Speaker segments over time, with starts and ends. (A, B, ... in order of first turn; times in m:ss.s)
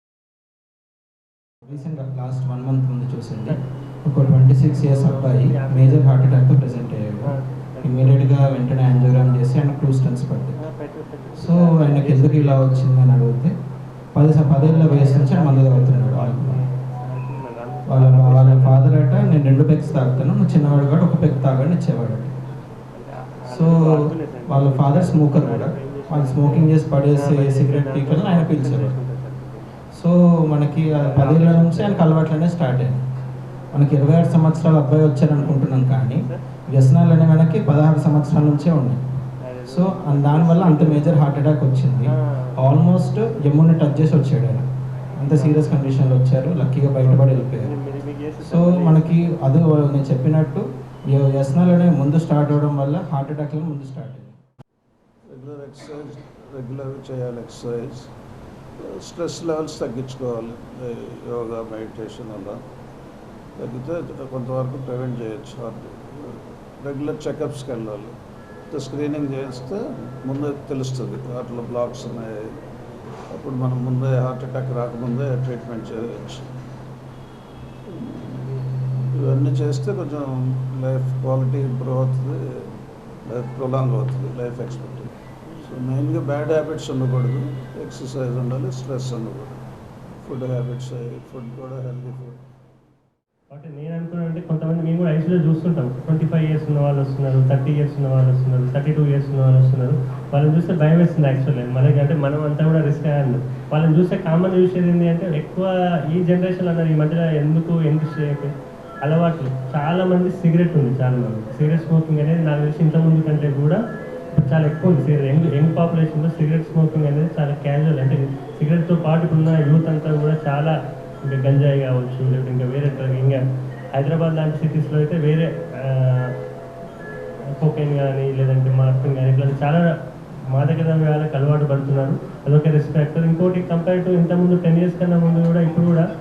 0:01.6-0:07.3 A
0:04.7-0:06.2 B
0:07.2-0:08.3 B
0:07.8-0:10.6 A
0:10.6-0:12.8 B
0:11.3-0:13.5 A
0:14.1-0:16.6 A
0:14.5-0:18.8 B
0:17.9-0:22.3 A
0:22.9-0:29.7 B
0:23.5-0:28.9 A
0:29.9-0:33.0 A
0:30.9-0:32.0 B
0:33.7-0:39.0 A
0:36.2-0:36.4 B
0:39.4-0:41.2 B
0:39.7-0:47.7 A
0:42.0-0:42.5 B
0:45.2-0:45.8 B
0:47.0-0:49.4 B
0:48.4-0:54.4 A
0:55.3-0:58.1 C
0:58.8-1:02.6 C
1:03.6-1:08.1 C
1:08.7-1:12.5 C
1:13.3-1:16.5 C
1:17.9-1:18.5 C
1:19.0-1:22.7 C
1:23.2-1:29.6 C
1:30.2-1:32.4 C
1:33.5-1:53.8 B
1:54.3-2:06.3 B
2:07.5-2:09.9 B
2:10.5-2:16.0 B